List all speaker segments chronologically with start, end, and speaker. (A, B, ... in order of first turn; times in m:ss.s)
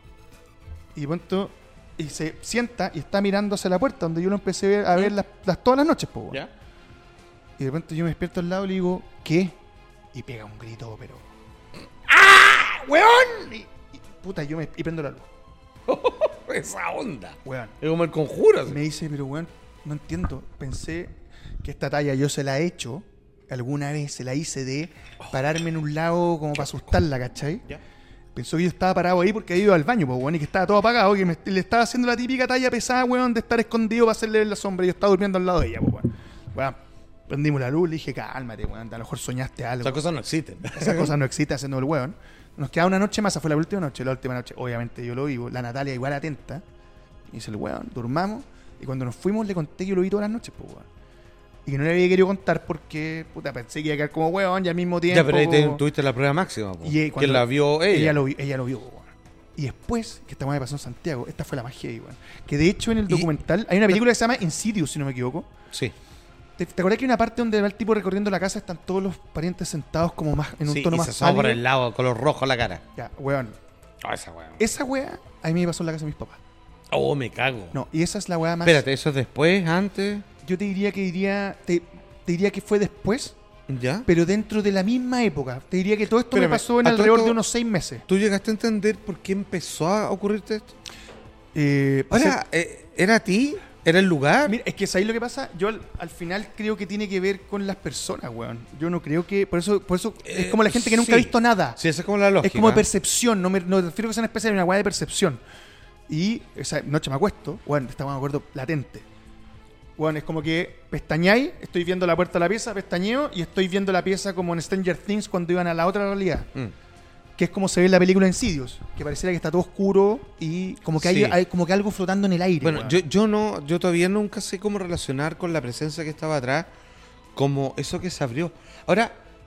0:01.0-0:06.4 A
0:07.6-0:09.6 A
0:10.1-0:11.3 A
0:12.1-0:13.5 B
0:13.0-0:15.3 A
0:15.9-0:18.8 B
0:17.4-0:17.8 A
0:18.7-0:27.6 A
0:28.4-0:40.0 A
0:39.8-0:41.2 B
0:40.7-0:46.6 A
0:47.3-0:50.9 A
0:51.7-0:55.8 A
0:55.1-0:58.2 B
0:56.8-1:05.5 A
1:06.6-1:11.6 A
1:10.7-1:12.8 B
1:13.0-1:13.6 A
1:14.0-1:14.6 B
1:14.6-1:16.4 A
1:16.9-1:17.8 B
1:17.7-1:18.8 A
1:18.6-1:20.3 B
1:20.4-1:23.4 A
1:23.7-1:24.1 B
1:24.1-1:28.0 A
1:26.3-1:27.4 B
1:28.1-1:30.8 B
1:31.5-1:32.4 A
1:32.1-1:34.6 B
1:34.4-1:41.8 A
1:40.2-1:42.8 B
1:42.4-1:45.4 A
1:46.1-1:49.0 A
1:50.0-1:56.5 A
1:57.4-2:03.0 A
2:01.0-2:01.4 B
2:02.6-2:06.7 B
2:07.4-2:09.2 B